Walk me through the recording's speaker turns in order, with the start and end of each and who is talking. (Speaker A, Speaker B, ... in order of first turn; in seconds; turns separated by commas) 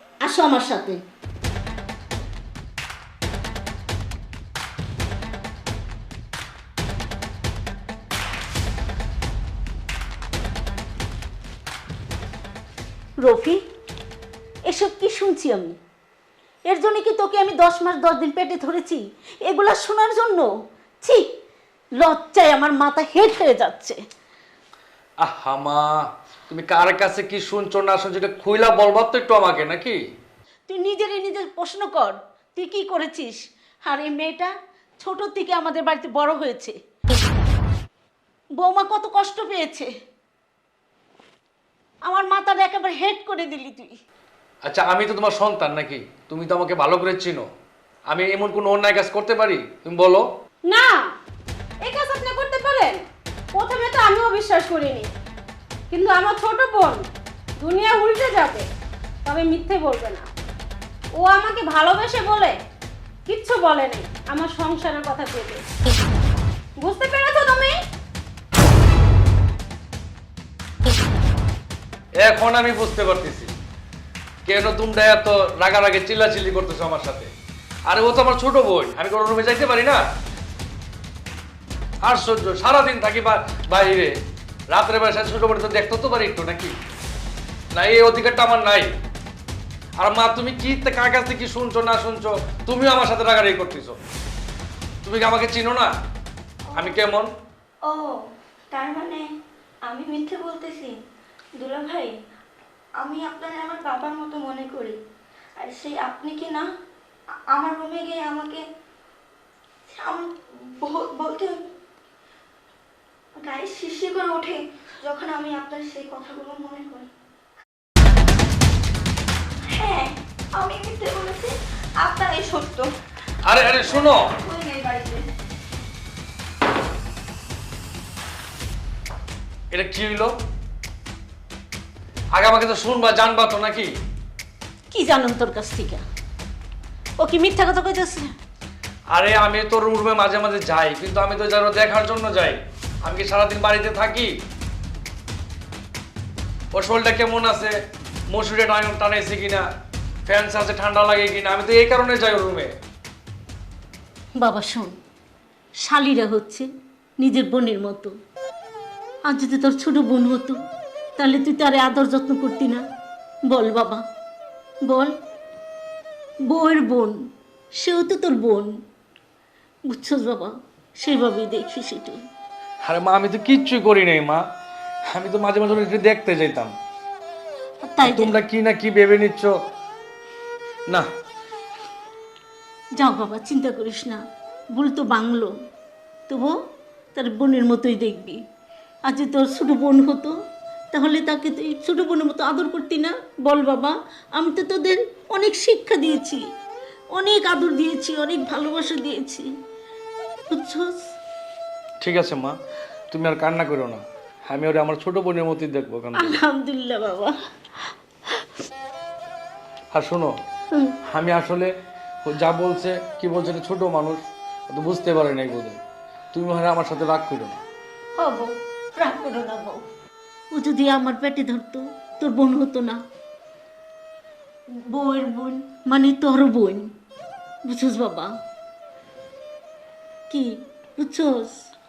Speaker A: 0.2-1.0, Speaker A: 13.2-13.6, Speaker A: 14.7-15.8, Speaker A: 16.6-20.5, Speaker A: 22.0-24.0, Speaker B: 25.2-30.0, Speaker A: 30.7-36.7, Speaker A: 38.6-39.9, Speaker A: 42.0-43.9, Speaker B: 44.6-47.4, Speaker B: 48.1-50.2, Speaker C: 50.7-51.1, Speaker C: 51.8-55.1, Speaker C: 55.9-57.0, Speaker C: 57.6-58.7, Speaker C: 59.2-60.3, Speaker C: 61.2-62.6, Speaker C: 63.3-65.6, Speaker C: 66.8-67.8, Speaker B: 72.2-73.5, Speaker B: 74.4-77.3, Speaker B: 77.9-80.0, Speaker B: 82.0-84.1, Speaker B: 84.7-86.8, Speaker B: 87.7-88.9, Speaker B: 90.0-94.0, Speaker B: 95.0-95.9, Speaker B: 96.7-97.3, Speaker D: 97.8-98.2, Speaker D: 98.7-99.2, Speaker D: 99.9-101.0, Speaker D: 101.6-102.1, Speaker D: 103.0-105.0, Speaker D: 105.6-106.7, Speaker D: 107.5-108.6, Speaker D: 109.9-111.6, Speaker D: 113.4-117.1, Speaker D: 119.7-122.9, Speaker B: 123.4-124.3, Speaker D: 123.8-125.3, Speaker B: 129.7-130.3, Speaker B: 132.3-133.9, Speaker A: 134.9-136.0, Speaker A: 137.2-138.3, Speaker B: 139.1-144.3, Speaker B: 146.7-147.8, Speaker B: 148.3-149.7, Speaker B: 150.2-152.7, Speaker A: 154.4-154.9, Speaker A: 155.8-156.7, Speaker A: 157.2-158.1, Speaker A: 159.2-160.6, Speaker A: 161.2-162.8, Speaker A: 163.5-164.0, Speaker A: 164.8-165.1, Speaker A: 166.5-167.1, Speaker A: 167.7-168.7, Speaker A: 169.9-172.2, Speaker B: 172.8-174.4, Speaker B: 175.1-176.7, Speaker A: 177.8-178.4, Speaker B: 178.0-179.5, Speaker A: 182.9-184.2, Speaker A: 184.7-185.5, Speaker A: 186.3-186.5, Speaker A: 187.1-188.4, Speaker A: 189.0-190.3, Speaker A: 190.9-196.4, Speaker A: 197.1-199.5, Speaker A: 200.5-201.0, Speaker B: 202.0-202.6, Speaker B: 203.1-206.4, Speaker A: 206.1-207.3, Speaker B: 209.9-210.3, Speaker B: 211.1-211.7, Speaker B: 212.2-215.8, Speaker B: 216.3-217.6, Speaker A: 218.2-219.8, Speaker A: 220.5-223.0, Speaker A: 224.9-226.9, Speaker A: 227.6-228.3, Speaker A: 230.3-231.6